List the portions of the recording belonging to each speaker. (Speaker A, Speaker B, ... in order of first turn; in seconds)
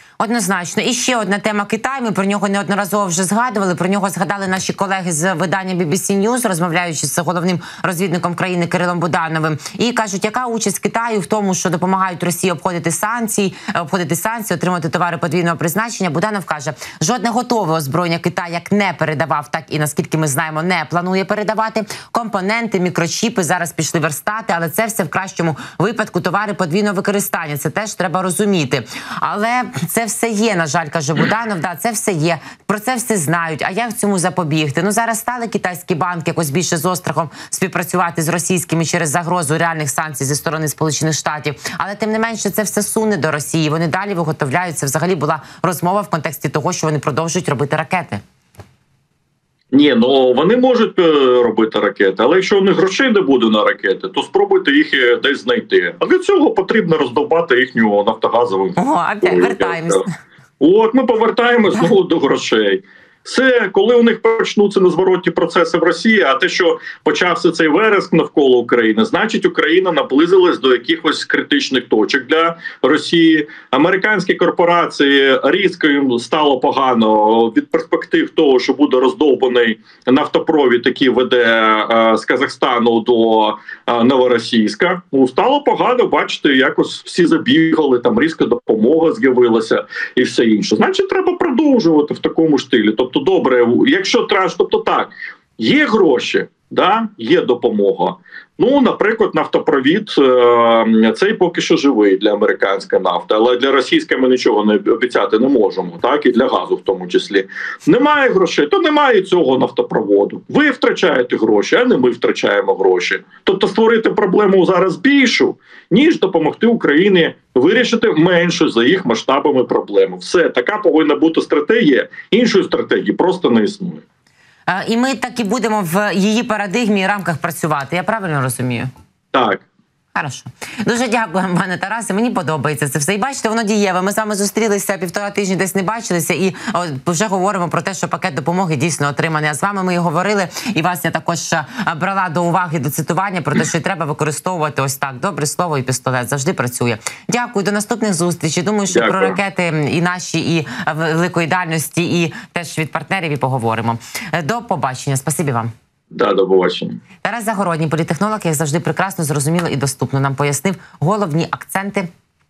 Speaker A: 0.2-48.2, 58.8-60.1, 124.7-128.9, 130.1-155.7, 157.2-162.1
Speaker B: 49.7-60.0, 60.6-124.0, 129.3-129.6, 148.9-149.4, 156.1-157.0